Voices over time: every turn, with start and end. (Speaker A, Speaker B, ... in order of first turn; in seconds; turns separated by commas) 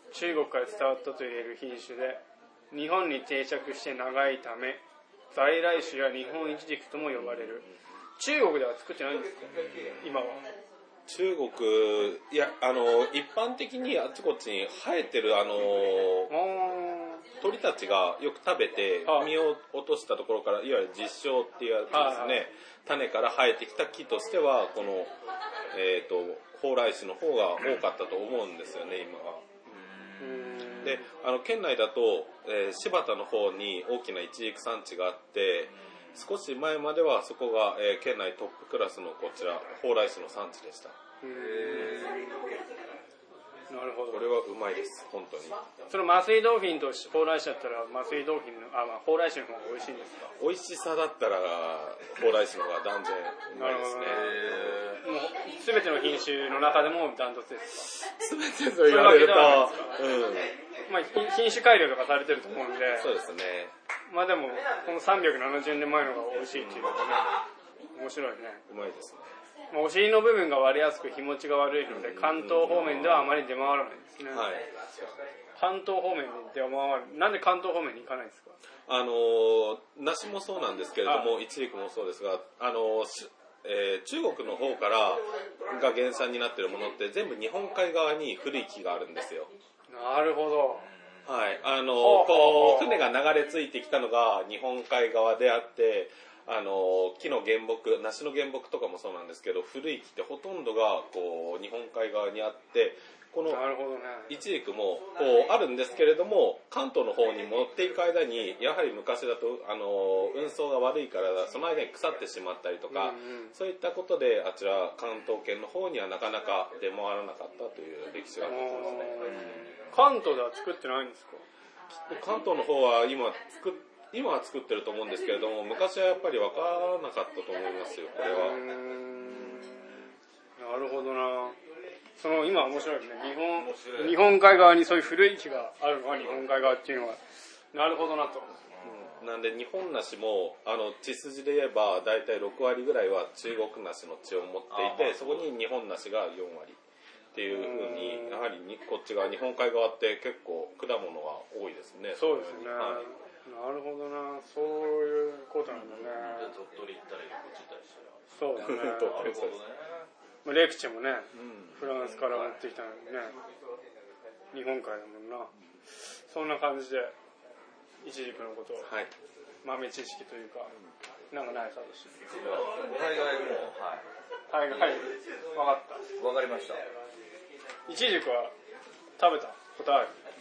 Speaker A: 0.1-4.8, Speaker A: 5.3-7.7, Speaker B: 7.1-7.7, Speaker A: 8.2-10.4, Speaker B: 11.1-16.3, Speaker A: 16.3-17.2, Speaker B: 17.4-25.1, Speaker A: 19.1-19.4, Speaker A: 21.9-22.4, Speaker B: 25.7-29.6, Speaker C: 29.7-31.0, Speaker A: 30.2-31.0, Speaker B: 30.8-41.0, Speaker A: 41.2-42.4, Speaker C: 41.3-42.3, Speaker A: 43.7-44.3, Speaker B: 44.1-45.6, Speaker A: 45.9-50.3, Speaker B: 50.4-54.3, Speaker A: 53.5-54.3, Speaker C: 54.0-55.0, Speaker A: 55.0-58.1, Speaker B: 58.2-60.5, Speaker A: 58.8-60.0, Speaker A: 60.9-63.1, Speaker B: 63.0-63.7, Speaker A: 64.1-67.4, Speaker B: 66.4-67.0, Speaker A: 68.0-68.6, Speaker B: 68.7-69.3, Speaker A: 69.7-74.5, Speaker B: 71.9-73.4, Speaker B: 74.3-74.7, Speaker A: 75.6-78.6, Speaker B: 78.9-89.5, Speaker A: 81.1-81.3, Speaker A: 89.9-90.9, Speaker C: 90.8-91.7, Speaker B: 91.2-103.6, Speaker A: 91.9-93.0, Speaker A: 103.5-104.3, Speaker B: 104.3-119.5, Speaker A: 112.9-113.5, Speaker A: 118.4-121.5, Speaker C: 119.1-119.9, Speaker B: 122.1-128.6, Speaker A: 128.2-129.8, Speaker A: 130.6-131.6, Speaker A: 132.2-137.2, Speaker C: 133.6-134.2, Speaker A: 137.7-138.5, Speaker C: 138.8-139.1, Speaker B: 138.8-146.8, Speaker C: 144.7-145.5, Speaker B: 147.3-153.1, Speaker A: 147.5-148.4, Speaker A: 152.2-156.5, Speaker B: 155.9-156.2, Speaker C: 156.2-160.1, Speaker A: 158.3-159.4, Speaker B: 158.6-159.6, Speaker A: 160.4-163.3, Speaker B: 161.3-161.9, Speaker C: 162.0-162.6, Speaker A: 164.5-165.5, Speaker A: 166.1-167.1, Speaker A: 168.0-168.9, Speaker B: 168.8-169.1, Speaker A: 169.6-170.7, Speaker A: 171.3-172.4, Speaker C: 172.3-174.1, Speaker A: 174.5-176.0, Speaker C: 176.2-176.8, Speaker A: 177.9-178.5, Speaker A: 179.2-180.2